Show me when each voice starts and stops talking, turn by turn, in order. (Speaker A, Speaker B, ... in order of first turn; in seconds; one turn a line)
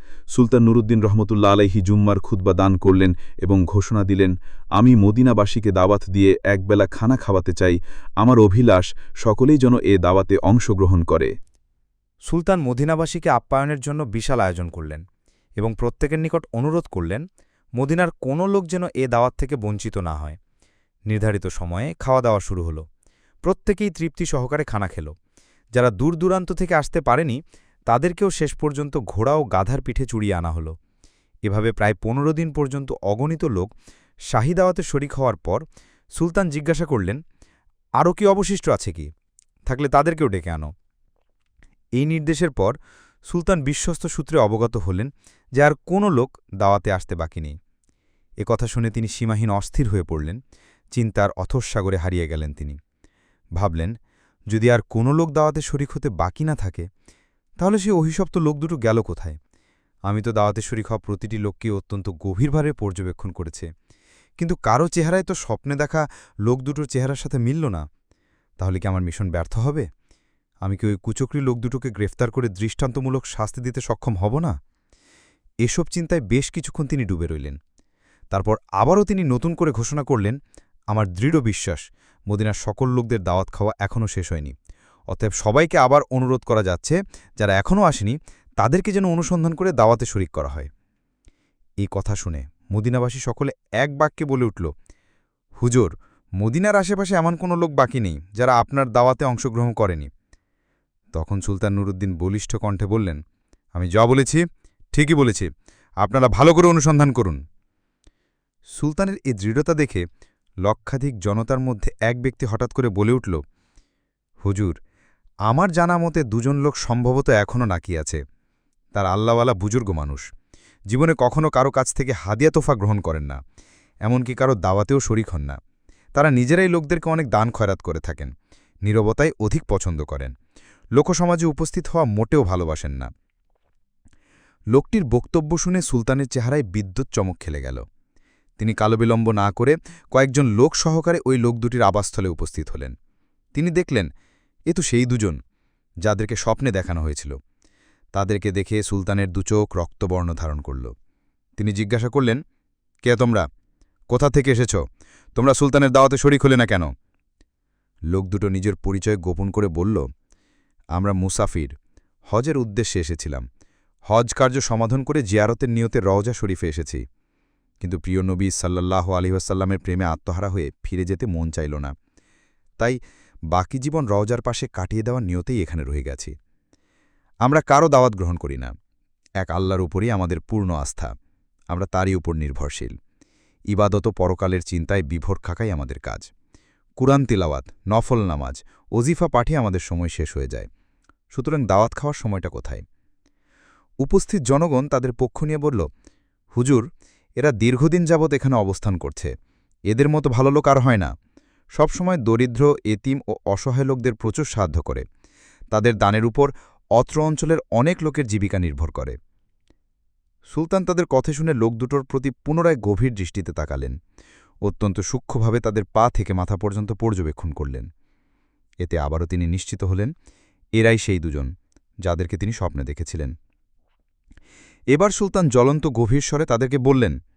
Speaker A: 0.3-11.3
Speaker B: 12.3-15.0
Speaker B: 15.6-17.2
Speaker B: 17.8-20.4
Speaker B: 21.1-22.8
Speaker B: 23.5-25.1
Speaker B: 25.8-27.4
Speaker A: 26.4-27.2
Speaker B: 27.9-30.7
Speaker A: 29.5-29.8
Speaker B: 31.5-33.7
Speaker B: 34.3-35.6
Speaker B: 36.2-37.2
Speaker B: 38.0-39.0
Speaker B: 39.7-40.7
Speaker B: 42.0-42.7
Speaker B: 43.3-47.5
Speaker B: 48.4-50.4
Speaker B: 51.0-52.8
Speaker B: 53.6-53.9
Speaker B: 54.5-56.8
Speaker B: 57.6-59.4
Speaker B: 60.1-63.7
Speaker B: 64.4-67.8
Speaker B: 68.6-69.8
Speaker B: 70.7-74.5
Speaker B: 75.7-77.5
Speaker B: 78.3-80.3
Speaker B: 80.9-84.5
Speaker B: 85.1-88.1
Speaker A: 85.6-86.0
Speaker B: 88.6-90.7
Speaker B: 91.8-94.7
Speaker B: 95.6-95.9
Speaker B: 96.4-100.1
Speaker B: 101.1-103.2
Speaker B: 103.8-104.4
Speaker B: 104.9-105.5
Speaker B: 106.0-107.4
Speaker B: 108.8-110.0
Speaker B: 110.7-113.4
Speaker B: 114.4-114.7
Speaker B: 115.5-118.2
Speaker B: 119.0-120.2
Speaker B: 120.9-123.4
Speaker B: 124.0-125.6
Speaker B: 126.2-128.3
Speaker B: 128.9-130.3
Speaker B: 131.0-133.1
Speaker B: 134.8-137.8
Speaker B: 138.6-142.9
Speaker B: 143.6-144.1
Speaker B: 144.7-145.4
Speaker B: 146.1-147.3
Speaker B: 148.1-150.9
Speaker B: 151.6-152.4
Speaker B: 153.1-153.4
Speaker B: 154.1-154.8
Speaker B: 155.4-156.9
Speaker B: 158.1-160.0
Speaker B: 160.9-161.7
Speaker B: 162.3-163.4
Speaker B: 164.1-167.0
Speaker B: 167.8-171.9
Speaker A: 169.3-169.7
Speaker B: 173.5-176.3
Speaker B: 177.4-178.7
Speaker B: 179.4-181.1
Speaker A: 180.4-181.0
Speaker B: 181.7-182.9
Speaker A: 181.9-182.5
Speaker B: 183.7-186.2
Speaker A: 184.1-184.6
Speaker B: 187.0-190.7
Speaker B: 191.3-192.8
Speaker B: 194.0-195.8
Speaker B: 196.6-196.8
Speaker B: 197.4-199.3
Speaker B: 199.9-201.1
Speaker B: 201.8-205.0
Speaker B: 205.7-209.1
Speaker B: 210.5-213.9
Speaker B: 214.7-217.8
Speaker B: 218.8-220.1
Speaker B: 220.8-221.5
Speaker B: 222.1-223.3
Speaker B: 224.9-227.1